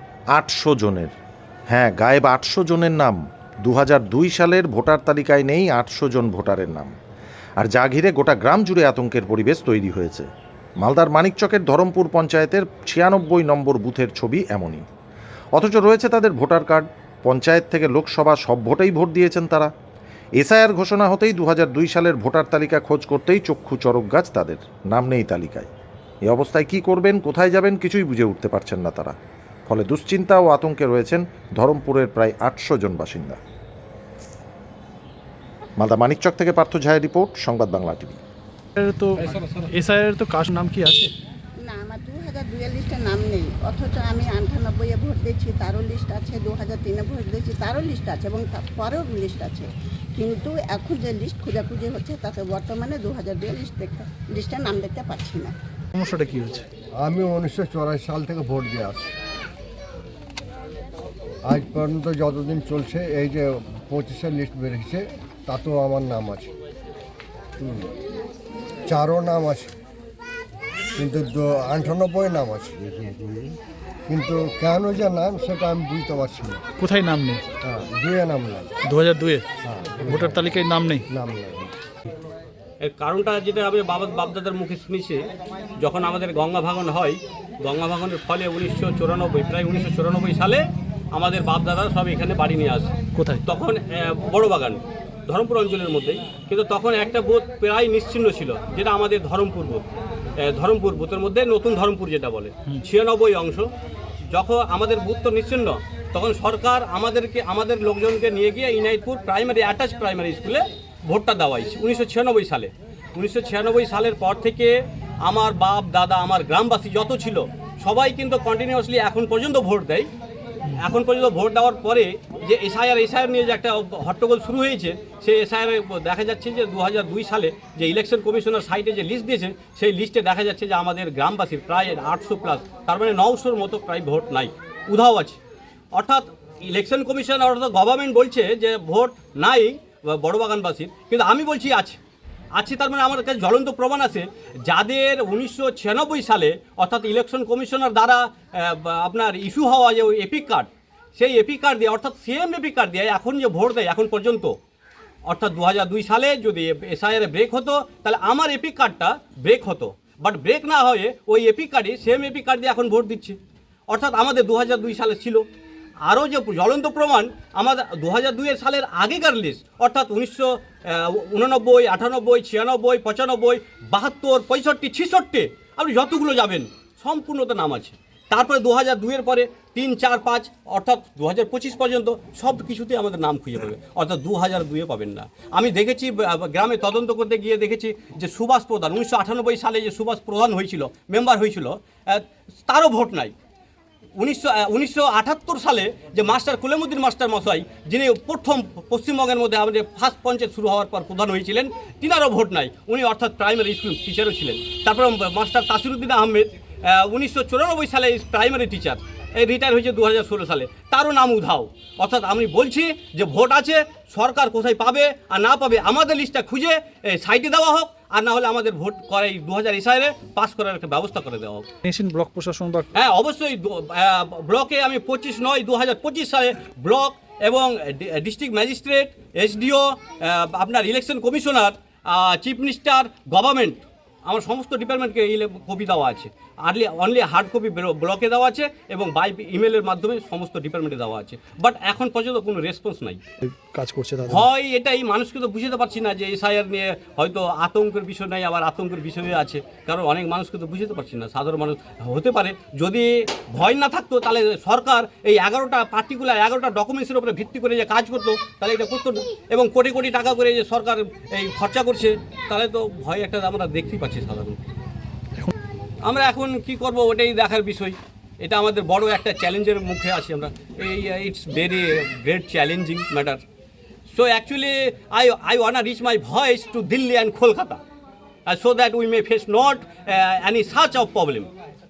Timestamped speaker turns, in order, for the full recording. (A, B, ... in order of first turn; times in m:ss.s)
0:00.3-0:01.1 A
0:01.7-0:06.9 A
0:07.6-0:10.3 A
0:10.8-0:14.8 A
0:15.5-0:19.7 A
0:20.4-0:25.7 A
0:26.2-0:29.1 A
0:29.7-0:33.4 A
0:35.8-0:38.2 A
0:38.8-0:41.1 B
0:41.6-0:55.5 C
0:55.9-0:56.6 B
0:57.0-0:59.1 D
1:01.4-1:06.5 D
1:07.6-1:07.9 D
1:08.9-1:09.7 D
1:11.0-1:13.0 D
1:14.1-1:16.6 D
1:16.8-1:17.4 B
1:17.6-1:18.7 D
1:18.8-1:19.4 B
1:19.6-1:20.4 D
1:20.0-1:21.0 B
1:21.1-1:21.7 D
1:22.8-1:25.2 E
1:25.8-1:39.9 E
1:33.1-1:33.4 B
1:40.4-1:43.7 E
1:44.3-2:00.1 E
2:00.8-2:15.4 E
2:15.9-2:22.0 E
2:22.5-2:34.5 E
2:35.3-2:43.4 E
2:43.9-2:45.4 E
2:46.0-3:13.3 E
3:14.2-3:41.7 E
3:41.8-3:42.9 B
3:42.9-4:03.2 E
4:03.4-4:04.4 B
4:04.3-4:24.7 E
4:26.0-4:33.4 E
4:34.1-4:37.8 E
4:38.5-4:41.5 E